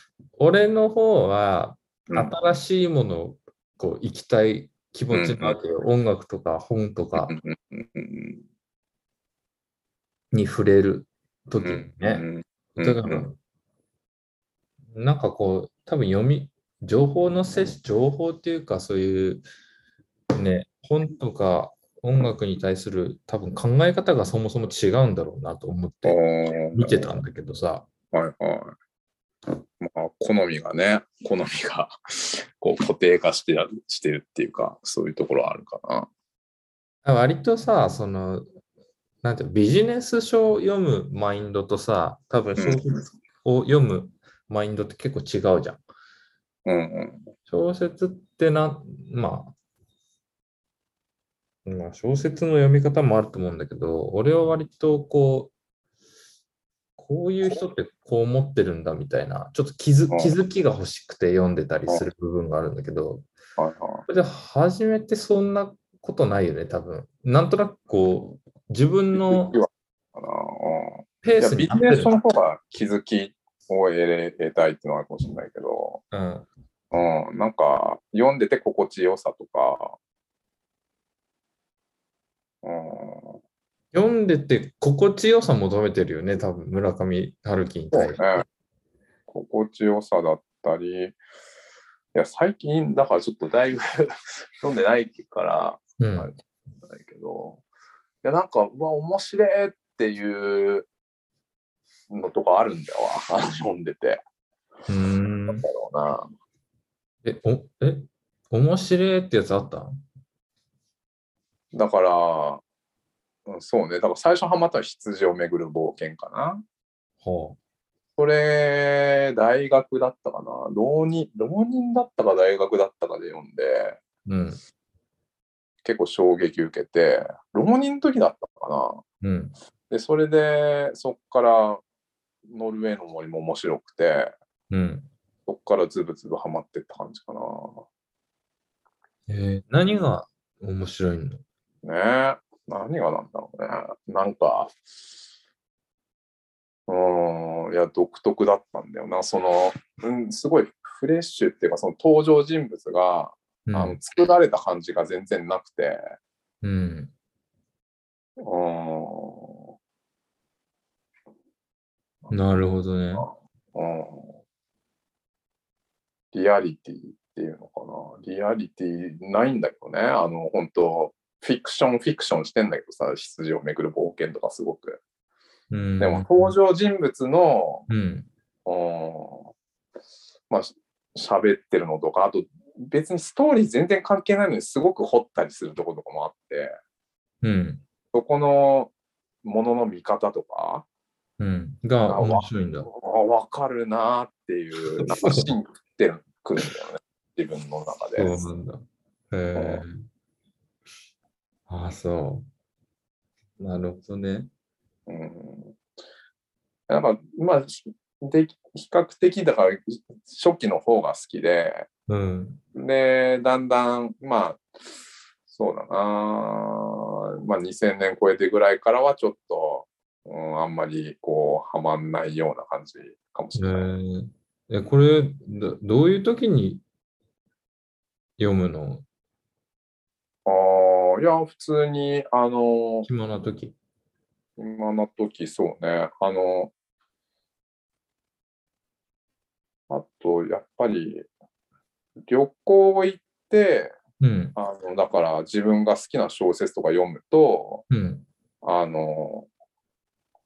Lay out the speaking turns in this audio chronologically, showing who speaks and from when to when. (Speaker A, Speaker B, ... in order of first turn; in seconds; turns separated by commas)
Speaker A: 0.4-7.3, Speaker B: 2.1-2.3, Speaker B: 5.1-5.6, Speaker B: 7.2-8.4, Speaker A: 10.3-12.2, Speaker B: 11.6-13.3, Speaker A: 12.8-13.4, Speaker A: 14.9-19.4, Speaker A: 20.3-26.2, Speaker B: 26.0-27.1, Speaker A: 26.7-27.9, Speaker B: 28.1-28.8, Speaker B: 29.8-36.1, Speaker A: 37.0-38.5, Speaker A: 39.2-45.8, Speaker B: 42.6-43.1, Speaker B: 46.7-47.3, Speaker A: 47.5-49.5, Speaker A: 51.6-55.5, Speaker A: 57.0-63.3, Speaker B: 60.1-60.4, Speaker B: 63.6-64.1, Speaker A: 64.1-69.6, Speaker B: 69.1-76.0, Speaker A: 71.2-72.1, Speaker A: 76.1-76.5, Speaker B: 76.9-80.0, Speaker B: 82.6-83.4, Speaker A: 83.9-88.2, Speaker B: 87.9-88.5, Speaker B: 89.3-91.2, Speaker B: 92.2-97.6, Speaker A: 96.0-96.3, Speaker B: 98.2-100.9, Speaker B: 102.1-104.2, Speaker A: 104.9-105.7, Speaker B: 105.5-106.3, Speaker A: 107.2-110.0, Speaker B: 111.7-112.6, Speaker B: 113.5-116.6, Speaker A: 117.2-117.6, Speaker B: 118.2-124.0, Speaker A: 124.3-124.6, Speaker B: 125.8-129.0, Speaker A: 129.2-129.5, Speaker B: 129.9-131.8, Speaker B: 132.5-134.3, Speaker A: 134.7-135.1, Speaker B: 135.5-137.8, Speaker A: 139.3-141.4, Speaker B: 141.8-144.7, Speaker B: 146.9-156.0, Speaker A: 153.7-154.0, Speaker A: 156.6-157.1, Speaker B: 158.4-159.7, Speaker A: 162.3-163.3, Speaker B: 163.1-164.4, Speaker B: 166.3-175.0, Speaker A: 175.7-176.6, Speaker B: 176.0-177.9, Speaker A: 177.9-178.3, Speaker B: 178.7-179.5, Speaker B: 180.5-186.7, Speaker A: 187.4-187.8, Speaker B: 188.1-188.9, Speaker B: 189.4-190.9, Speaker A: 191.4-192.9, Speaker B: 192.1-198.4, Speaker A: 195.0-195.5, Speaker A: 198.2-200.1, Speaker B: 199.6-199.8, Speaker A: 201.7-202.5, Speaker A: 203.6-204.5, Speaker B: 205.1-205.8, Speaker B: 206.9-211.9, Speaker A: 212.1-212.6, Speaker B: 212.8-214.7, Speaker B: 215.5-223.9, Speaker A: 223.6-226.8, Speaker A: 228.4-229.1, Speaker B: 230.5-233.1, Speaker A: 233.1-233.8, Speaker B: 234.6-236.7, Speaker B: 239.9-241.3, Speaker B: 242.3-243.9, Speaker A: 244.2-244.6, Speaker B: 244.6-247.9, Speaker A: 247.9-248.3, Speaker B: 248.6-249.5